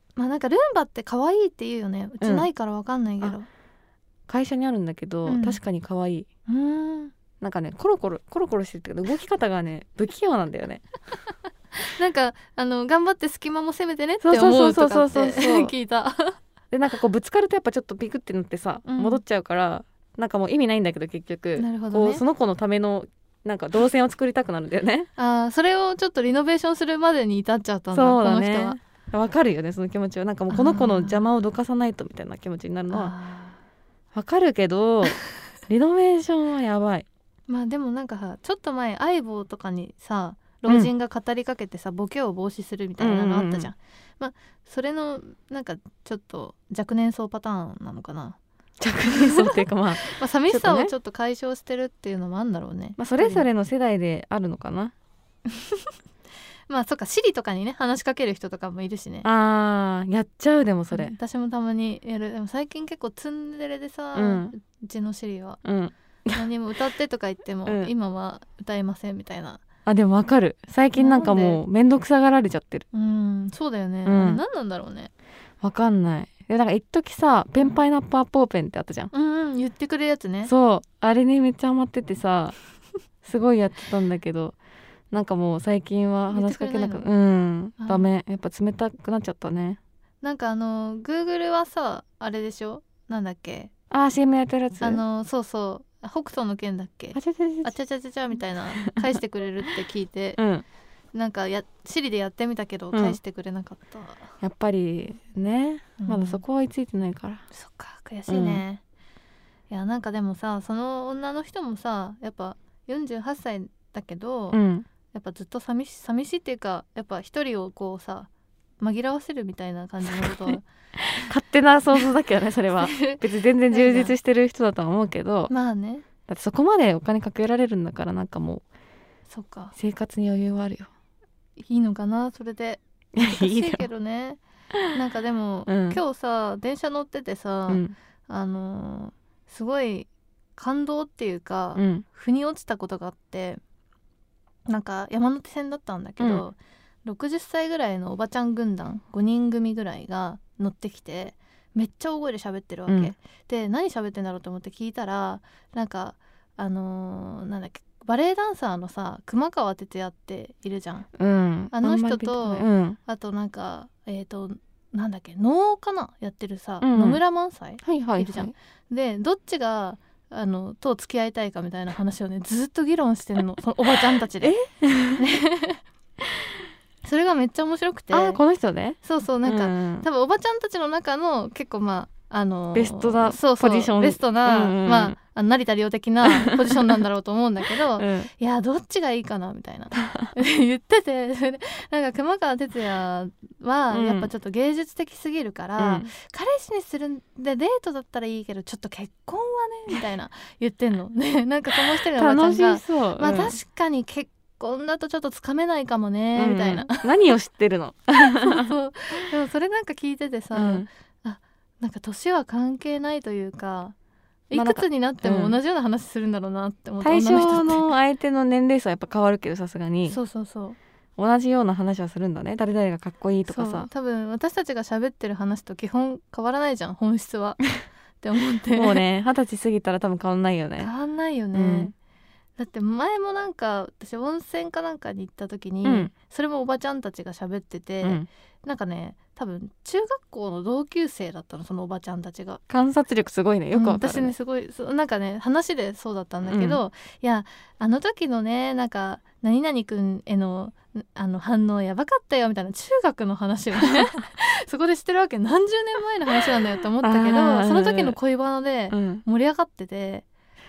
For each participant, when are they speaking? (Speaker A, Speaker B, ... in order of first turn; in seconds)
Speaker A: 0.2-3.5, 5.3-5.6, 6.5-7.1, 11.8-16.4, 18.9-19.2, 21.6-22.2, 25.2-28.8, 30.5-31.3, 32.9-33.6, 37.5-48.4, 49.1-53.5, 55.5-55.9, 56.7-59.3, 60.9-65.6, 66.3-69.6, 71.0-71.6, 72.9-75.1, 79.1-80.5, 86.3-87.1, 87.8-88.1, 90.2-93.7, 94.8-100.4, 101.1-104.3, 106.0-106.4, 107.5-108.8, 109.7-114.6, 115.1-120.7, 122.8-124.2, 125.5-126.1, 129.3-129.8, 131.6-134.4, 134.9-143.6, 144.7-161.1, 161.7-174.6, 175.2-175.8, 177.0-178.4, 179.0-207.3, 208.2-213.9, 214.5-217.9, 220.1-220.8, 223.5-227.7, 228.2-229.0, 230.8-231.9, 232.6-242.6, 243.7-260.3
Speaker B: 2.2-2.5, 4.3-6.3, 7.4-10.8, 14.2-15.7, 16.7-25.1, 27.9-33.1, 34.1-37.1, 43.0-43.7, 48.8-50.9, 53.0-54.9, 59.2-61.1, 64.2-64.5, 65.6-66.4, 67.7-67.9, 69.9-72.9, 74.0-74.4, 75.6-79.1, 80.5-82.6, 83.2-84.6, 85.1-89.8, 93.9-95.0, 97.1-97.7, 100.4-100.7, 102.9-103.2, 104.4-107.4, 108.3-108.6, 114.5-114.9, 120.2-120.5, 121.1-125.5, 126.3-128.6, 129.8-130.9, 133.2-133.8, 135.7-136.0, 137.7-137.9, 141.8-142.1, 152.9-153.1, 161.2-163.0, 166.8-167.2, 167.8-168.5, 174.4-175.2, 178.1-180.1, 182.7-185.2, 186.3-186.9, 188.0-188.3, 193.9-194.3, 195.8-196.1, 202.2-203.6, 206.4-208.7, 210.5-210.9, 214.5-215.6, 217.0-220.2, 221.2-223.9, 228.8-230.9, 231.5-231.9, 235.8-236.1, 238.0-238.3, 242.7-244.3, 246.5-246.8, 257.0-258.2, 258.9-259.2